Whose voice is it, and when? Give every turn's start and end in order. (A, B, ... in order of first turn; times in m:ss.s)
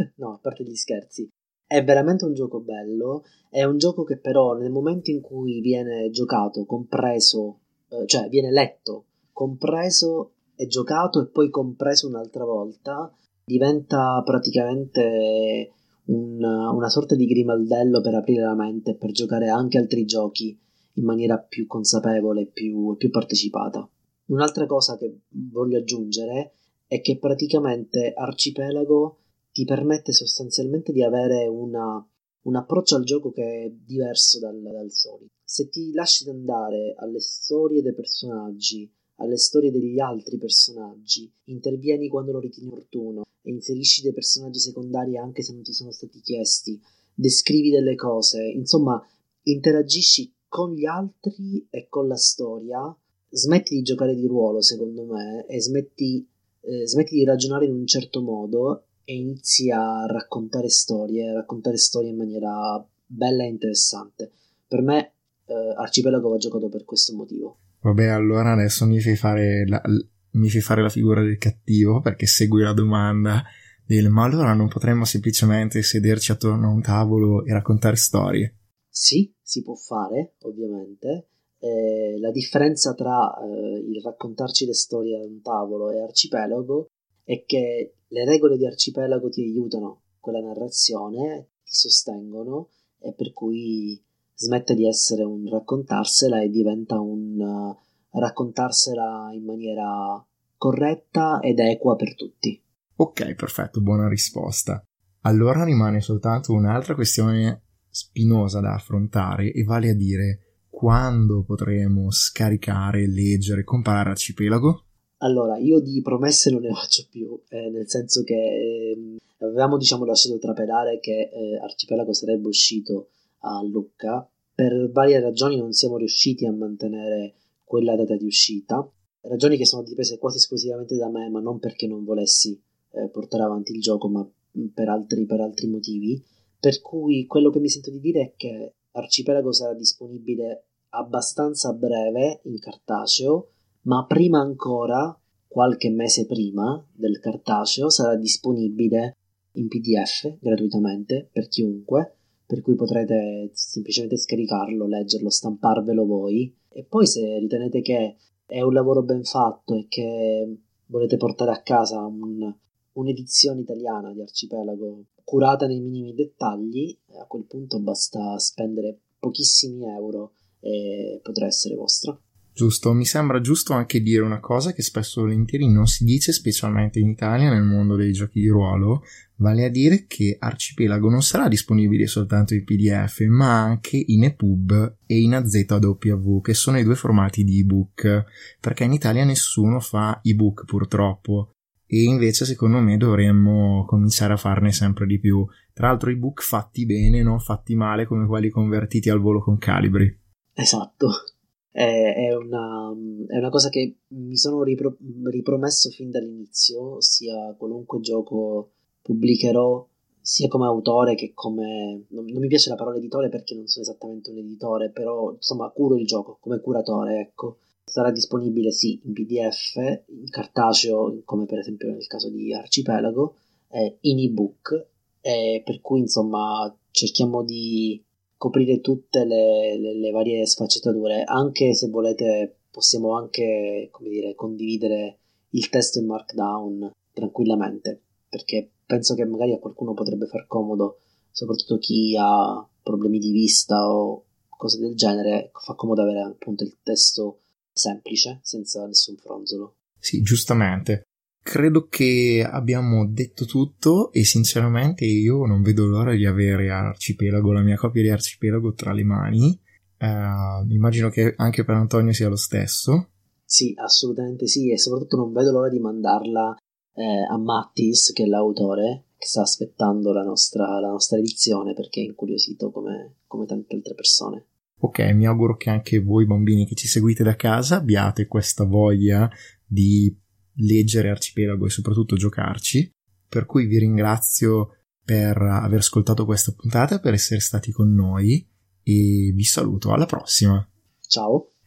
0:00.2-1:07.6 A
1:07.8-1:18.5 B
1:18.9-1:42.6 A
1:43.0-1:54.8 B
1:55.2-2:52.2 A
2:52.6-3:20.2 B
3:20.6-3:21.2 A
3:21.8-4:09.7 A
4:10.0-4:23.1 B
4:23.5-4:34.5 A
4:34.8-4:50.7 B
4:51.1-4:51.5 A